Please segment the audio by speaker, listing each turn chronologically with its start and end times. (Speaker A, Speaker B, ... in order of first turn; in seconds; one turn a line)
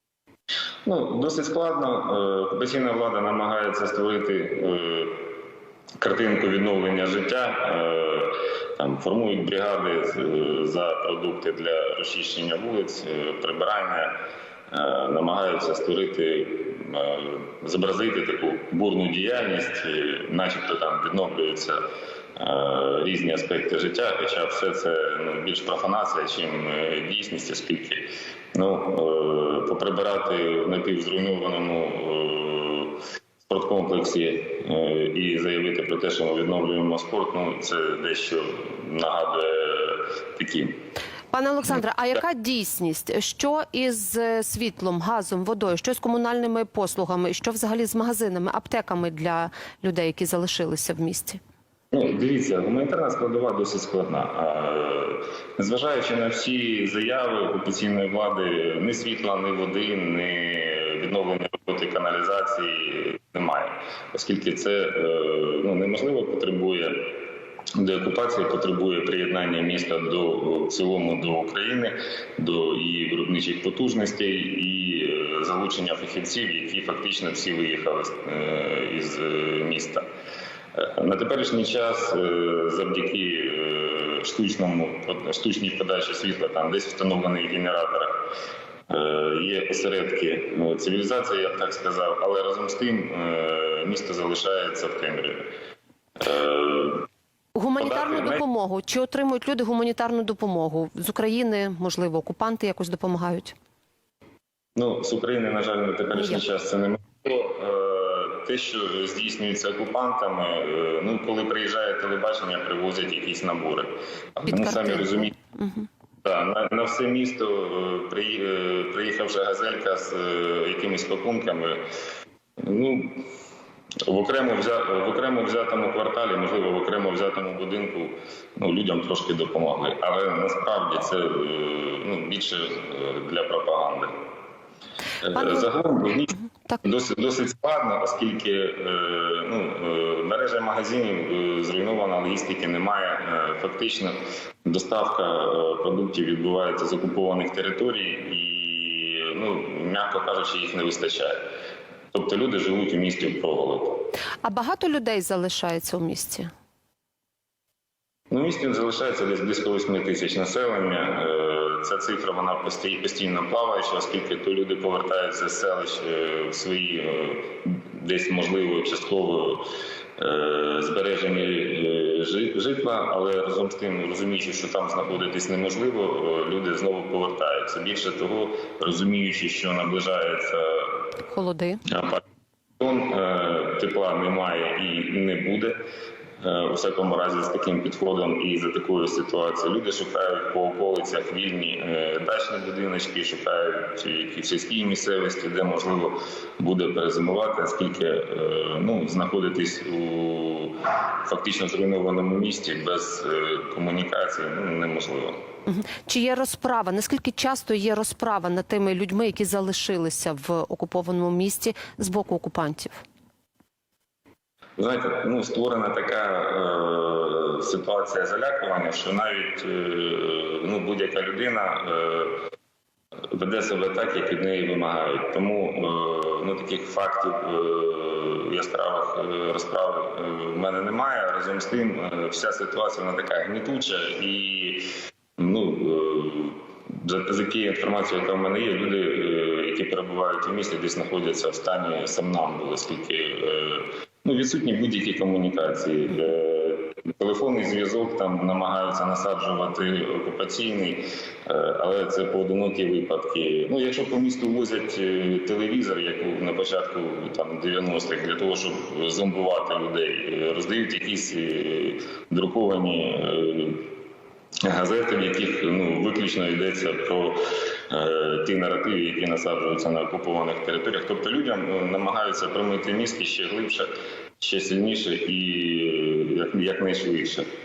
Speaker A: 0.8-5.2
Speaker A: 6.0-14.1
Speaker A: 14.7-21.8
Speaker A: 22.4-40.7
Speaker B: 41.3-51.4
Speaker A: 51.9-67.1
Speaker A: 67.8-80.0
Speaker A: 80.7-88.2
Speaker A: 88.9-95.5
Speaker A: 96.2-97.1
Speaker B: 97.5-103.5
Speaker A: 97.8-98.4
Speaker A: 104.8-115.3
Speaker B: 106.1-106.4
Speaker B: 114.5-115.9
Speaker A: 116.2-121.8
Speaker A: 122.6-123.2
Speaker A: 124.1-134.1
Speaker A: 135.2-151.4
Speaker A: 152.1-154.0
Speaker B: 154.4-156.5
Speaker A: 158.3-169.7
Speaker A: 170.2-181.0
Speaker B: 181.3-181.8
Speaker A: 181.9-182.2
Speaker A: 182.8-185.8
Speaker A: 186.4-205.4
Speaker B: 205.7-213.0
Speaker A: 214.8-222.4
Speaker A: 223.3-263.9
Speaker A: 264.6-273.9
Speaker A: 274.4-277.4